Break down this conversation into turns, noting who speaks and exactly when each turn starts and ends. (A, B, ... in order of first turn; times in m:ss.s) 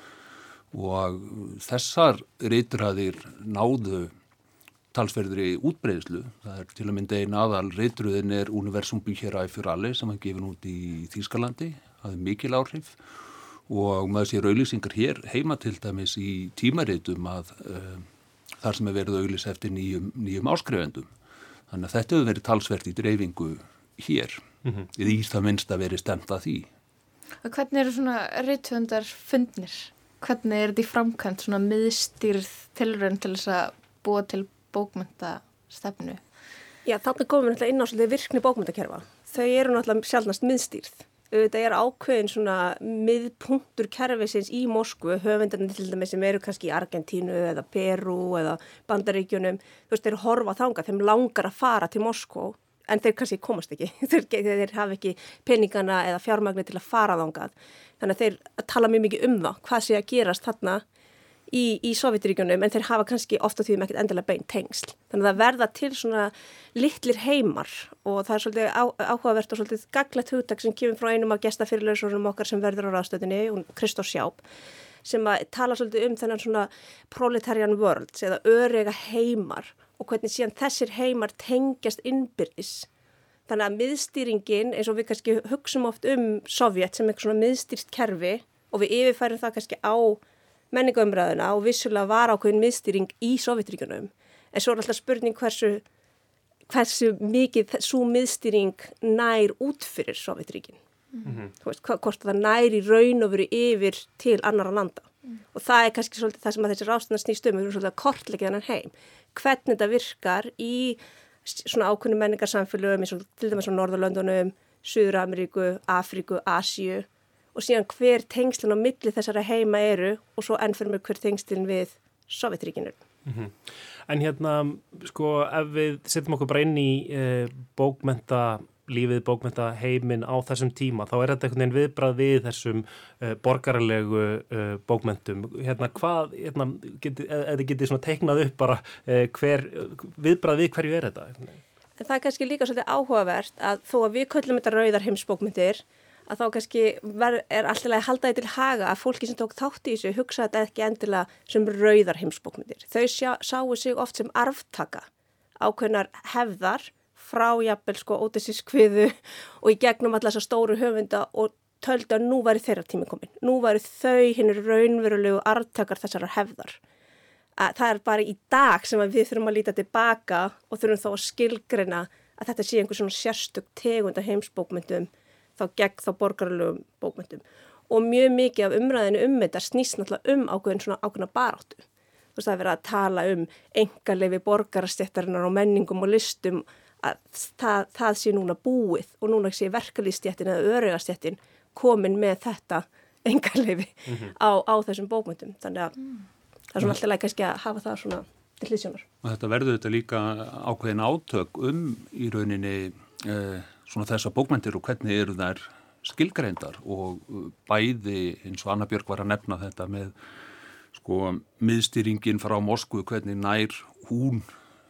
0:00.7-0:04.1 A
0:04.9-0:13.0 A
0:13.7-0:18.0 A
0:18.6-0:21.1 A
0:21.7-0:24.4 A
0:24.9-0:26.7 A
0:27.4-0:36.2 B
0:36.8-1:00.8 C
1:01.5-1:14.4 C
1:15.0-1:22.9 C
1:23.5-1:30.2 C
1:30.7-1:35.8 C
1:36.7-1:40.8 C
1:41.2-1:41.5 D
1:41.6-2:03.0 C
2:03.2-2:03.5 D
2:04.1-2:21.6 D
2:22.0-2:35.1 C
2:35.6-2:46.8 C
2:47.6-3:01.8 C
3:02.4-3:16.0 C
3:14.1-3:14.3 D
3:16.7-3:19.0 C
3:19.2-3:30.1 A
3:30.9-3:34.4 A